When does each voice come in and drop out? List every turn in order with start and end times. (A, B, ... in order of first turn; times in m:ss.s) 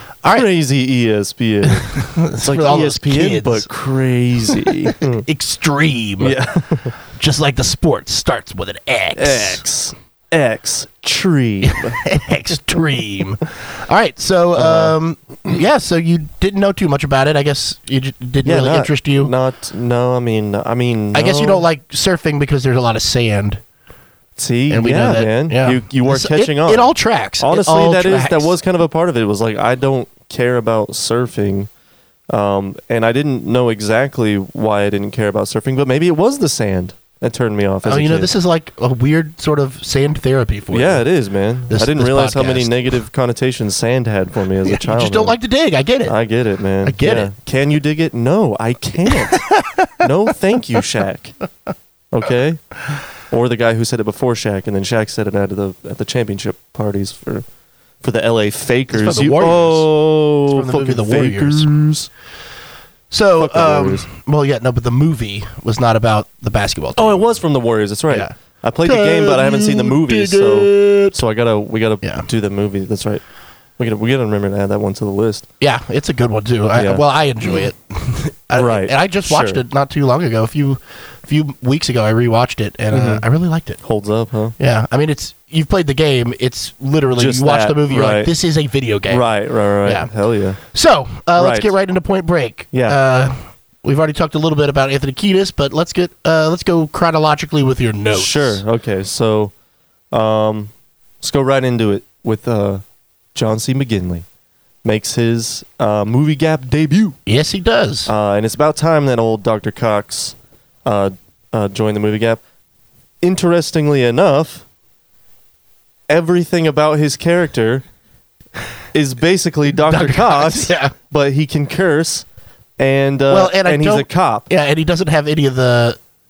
0:00.3-0:05.3 A
0:01.7-0:03.7 B
0:04.9-0:06.4 B
0:06.2-0:07.0 A
0:07.1-0:09.6 B
0:09.2-0:12.0 A
0:11.6-0:19.3 B
0:14.6-0:15.0 A
0:18.4-0:21.6 A
0:21.1-0:23.6 B
0:24.4-0:31.7 A
0:24.7-0:28.5 B
0:32.3-0:38.3 A
0:37.9-0:41.0 B
0:40.7-0:45.4 A
0:41.7-0:42.7 B
0:44.6-0:46.2 B
0:46.1-0:51.4 A
0:46.8-0:47.3 B
0:49.2-0:50.0 B
0:52.1-0:52.7 A
0:53.2-0:57.4 A
0:58.0-1:02.1 A
0:58.9-0:59.9 B
1:00.5-1:01.7 B
1:03.1-1:07.3 B
1:03.4-1:04.1 A
1:07.0-1:13.2 A
1:08.8-1:11.2 B
1:12.0-1:12.3 B
1:13.8-1:15.5 A
1:15.6-1:23.8 B
1:16.8-1:17.7 A
1:18.5-1:19.6 A
1:22.9-1:23.2 A
1:23.8-1:24.6 A
1:24.6-1:29.3 B
1:27.2-1:28.3 A
1:29.1-1:30.6 A
1:29.8-1:38.6 B
1:31.4-1:31.7 A
1:32.7-1:33.0 A
1:38.1-1:39.5 A
1:40.1-1:42.8 A
1:43.4-1:44.3 A
1:44.8-1:47.2 A
1:47.3-1:48.1 B
1:48.1-1:52.4 A
1:53.2-1:54.6 A
1:56.1-1:57.8 A
1:58.9-2:02.3 A
1:59.9-2:00.9 B
2:02.8-2:04.5 A
2:03.3-2:06.0 B